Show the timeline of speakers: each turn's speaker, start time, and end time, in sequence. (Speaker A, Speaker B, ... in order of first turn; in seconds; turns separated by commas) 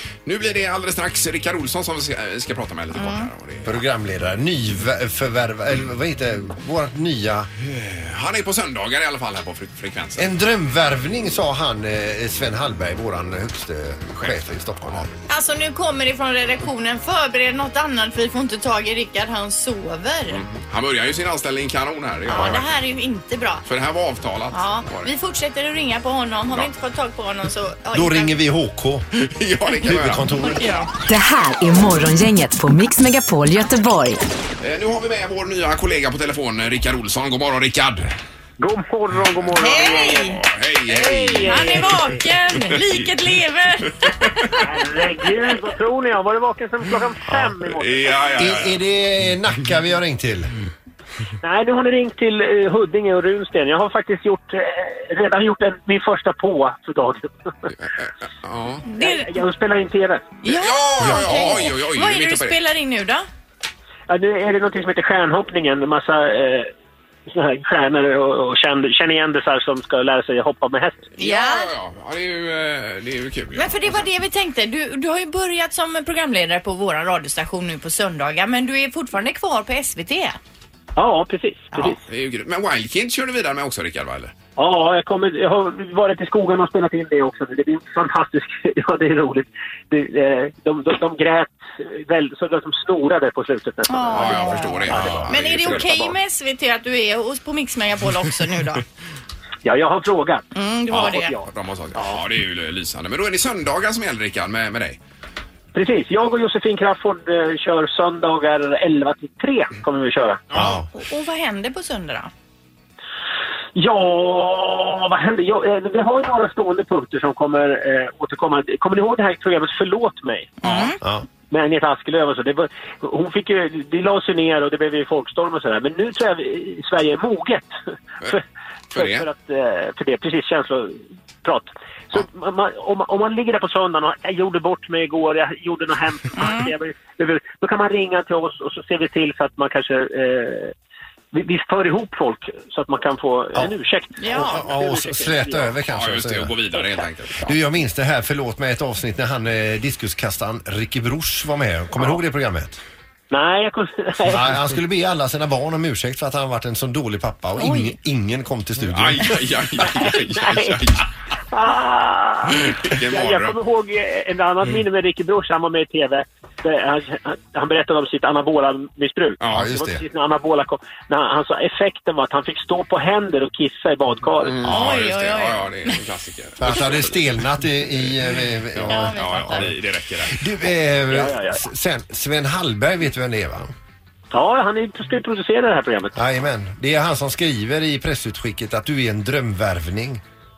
Speaker A: 0.2-3.8, Speaker B: 2.9-3.3, Speaker C: 3.6-7.5, Speaker A: 7.6-10.3, Speaker C: 10.2-15.1, Speaker A: 14.1-15.1, Speaker B: 15.3-20.4, Speaker A: 20.3-22.7, Speaker B: 22.3-23.6, Speaker A: 23.6-25.1, Speaker B: 24.5-28.4, Speaker C: 27.9-29.1, Speaker A: 29.1-30.3, Speaker C: 29.8-30.6, Speaker B: 30.4-30.9, Speaker D: 31.1-34.2, Speaker A: 34.6-38.1, Speaker E: 38.6-42.2, Speaker B: 39.5-40.4, Speaker A: 40.3-42.0, Speaker B: 41.5-44.5, Speaker A: 42.6-43.1, Speaker E: 44.6-48.1, Speaker A: 47.8-48.8, Speaker C: 48.4-50.5, Speaker E: 51.4-57.7, Speaker A: 57.8-58.9, Speaker B: 58.9-59.3, Speaker E: 58.9-60.3, Speaker B: 60.4-63.3, Speaker A: 60.5-62.6, Speaker E: 64.1-66.7, Speaker E: 67.3-71.1, Speaker B: 71.2-71.7, Speaker A: 71.2-74.0, Speaker B: 73.5-80.4, Speaker E: 81.0-82.0, Speaker A: 82.0-84.3, Speaker E: 84.6-96.1, Speaker B: 93.9-98.8, Speaker A: 94.1-95.9, Speaker E: 99.6-102.3, Speaker B: 100.5-101.3, Speaker A: 100.9-105.0, Speaker E: 105.7-110.5, Speaker A: 110.5-110.8, Speaker C: 110.5-110.9, Speaker B: 110.9-112.3, Speaker E: 113.8-120.5, Speaker A: 120.6-120.9, Speaker B: 120.6-121.0, Speaker E: 121.5-127.7, Speaker A: 128.9-129.2, Speaker E: 128.9-140.7, Speaker B: 136.3-136.7, Speaker E: 141.3-145.7, Speaker B: 144.2-144.7, Speaker C: 144.3-146.6, Speaker A: 145.9-147.6, Speaker C: 147.4-152.8, Speaker E: 153.3-154.7, Speaker C: 154.3-159.4, Speaker B: 157.6-157.9, Speaker A: 158.8-161.0, Speaker E: 159.8-160.9, Speaker E: 161.5-174.7, Speaker A: 162.5-163.6, Speaker A: 169.4-169.7, Speaker C: 169.5-170.0, Speaker A: 174.4-178.1, Speaker B: 174.6-176.0, Speaker C: 176.6-179.8, Speaker A: 178.7-180.4, Speaker B: 178.9-179.7, Speaker C: 180.3-183.7, Speaker E: 181.1-181.6, Speaker E: 184.3-186.1, Speaker C: 186.1-190.2